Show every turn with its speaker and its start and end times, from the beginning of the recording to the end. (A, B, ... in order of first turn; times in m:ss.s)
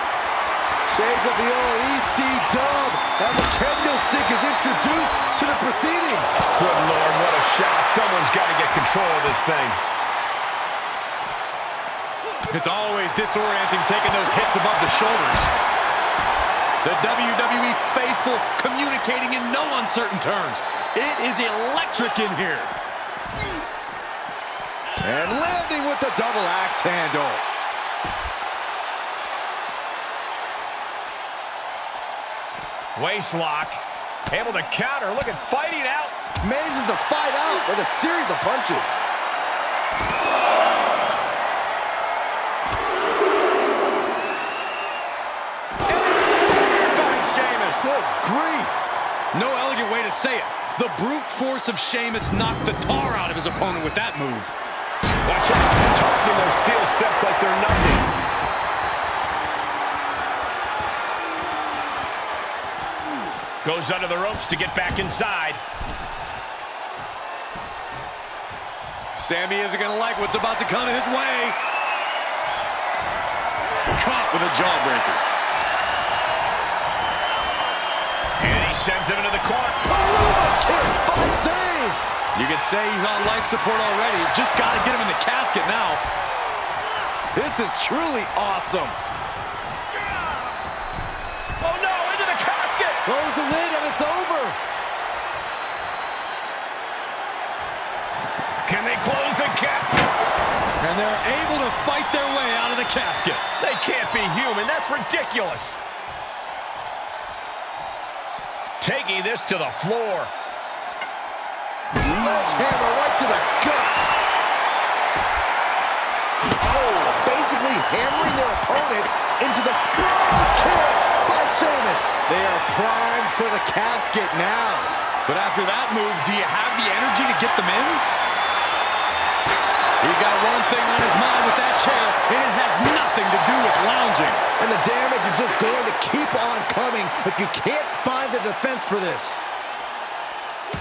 0:00.8-0:06.4 A
0:06.5-0:09.8 B
0:12.5-0:15.5 C
0:16.8-0:22.7 C
0:25.0-0:27.4 A
0:33.0-0:36.1 B
0:36.4-0:39.0 A
0:45.9-0:47.8 B
0:47.8-0:48.8 A
0:49.3-0:54.5 C
0:55.2-0:58.1 B
1:03.6-1:05.6 B
1:09.2-1:11.6 C
1:13.9-1:15.2 C
1:18.4-1:19.8 B
1:19.8-1:22.0 A
1:22.4-1:26.0 C
1:27.3-1:29.0 A
1:31.6-1:33.0 B
1:33.0-1:34.6 A
1:38.6-1:39.9 B
1:40.8-1:43.4 C
1:43.6-1:45.8 B
1:48.8-1:50.3 B
1:51.9-1:54.0 A
1:56.5-2:04.9 A
2:05.2-2:08.0 C
2:10.0-2:14.4 C
2:14.6-2:19.4 A